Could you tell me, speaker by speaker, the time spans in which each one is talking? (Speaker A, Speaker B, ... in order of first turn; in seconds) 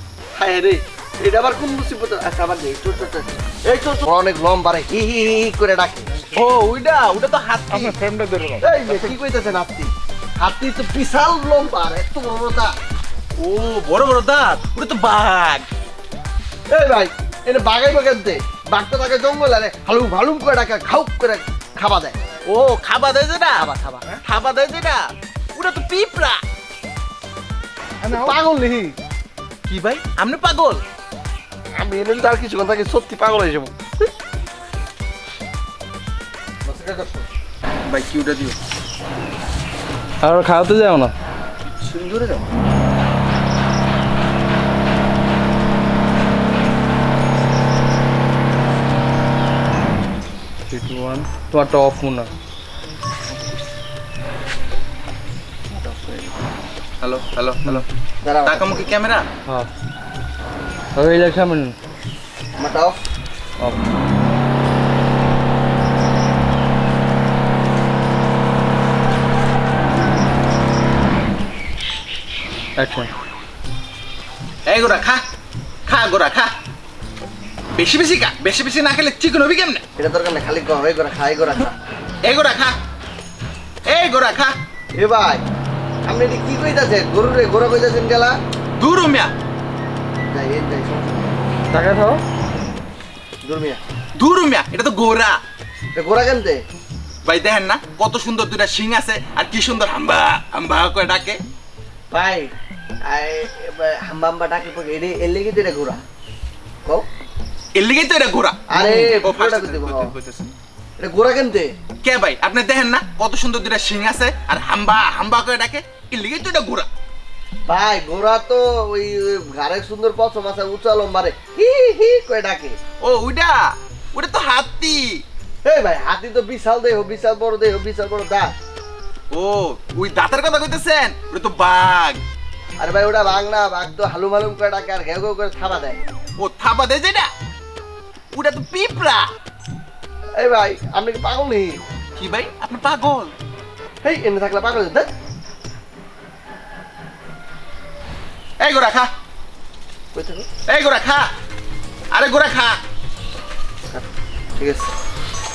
Speaker A: 0.3-6.1, 8.6-12.8, 16.7-22.1, 23.5-24.2, 28.0-29.0, 31.7-33.7, 41.8-42.4, 55.8-56.3, 58.2-58.9, 62.6-63.0, 80.0-81.8, 85.0-85.4, 86.0-88.3, 90.3-91.3, 93.4-93.8, 95.9-96.6, 102.1-102.5, 103.1-106.0, 108.7-110.1, 111.0-111.7, 117.7-122.8, 125.6-128.5, 132.8-136.0, 140.4-141.8, 144.0-145.1, 150.1-150.5, 154.6-154.9
Speaker B: 6.3-8.0, 13.4-15.7, 22.5-23.6, 24.2-26.4, 29.7-30.8, 37.9-38.5, 57.0-57.8, 58.4-59.3, 74.7-75.2, 75.9-76.5, 77.8-79.8, 82.2-82.7, 83.9-84.5, 88.8-89.3, 94.2-95.4, 97.2-101.4, 107.7-109.6, 112.0-116.9, 123.0-125.2, 129.3-132.2, 136.4-137.3, 138.3-139.3, 142.2-143.3, 148.6-149.1, 150.7-151.2, 152.1-152.8
Speaker C: 7.7-9.1, 36.7-37.2, 108.8-110.5
Speaker D: 40.2-41.1, 50.7-52.3, 61.0-61.7, 63.6-63.9, 72.8-73.1, 91.7-92.2